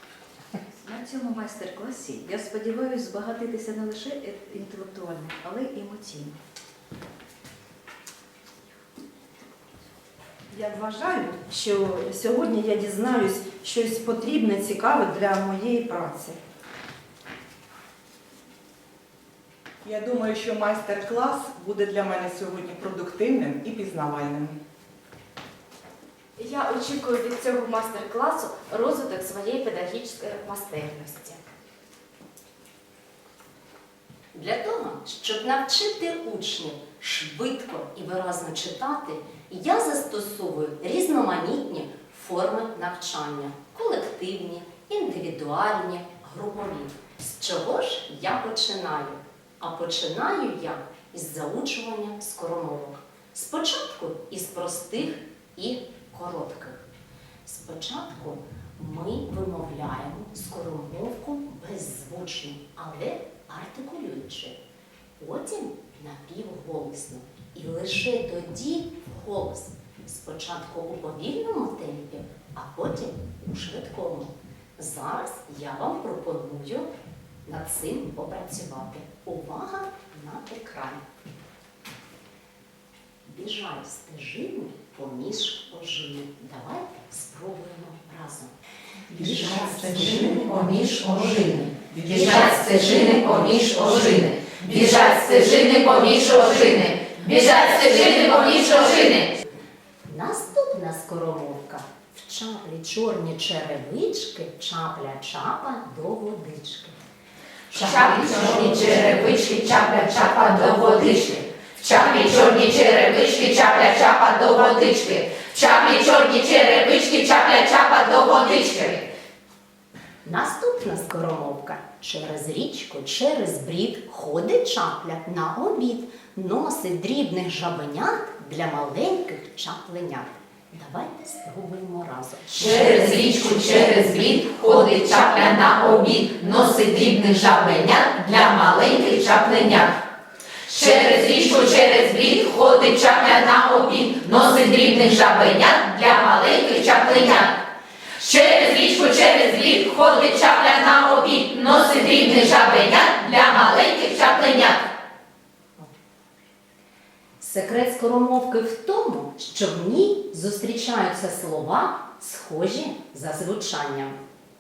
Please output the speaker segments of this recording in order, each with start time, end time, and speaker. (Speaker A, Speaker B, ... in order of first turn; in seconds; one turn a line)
Speaker A: 0.8-6.4
Speaker B: 10.5-16.4
Speaker C: 19.9-24.6
Speaker D: 26.4-31.4
Speaker E: 34.3-56.8
Speaker E: 57.5-64.6
Speaker E: 65.2-76.9
Speaker E: 77.5-81.0
Speaker E: 83.2-88.5
Speaker E: 89.1-90.2
Speaker F: 90.2-99.4
Speaker E: 100.1-107.0
Speaker F: 107.7-119.1
Speaker E: 120.2-132.7
Speaker F: 132.5-140.0
Speaker F: 140.7-147.6
Speaker F: 148.2-154.9
Speaker E: 157.4-164.2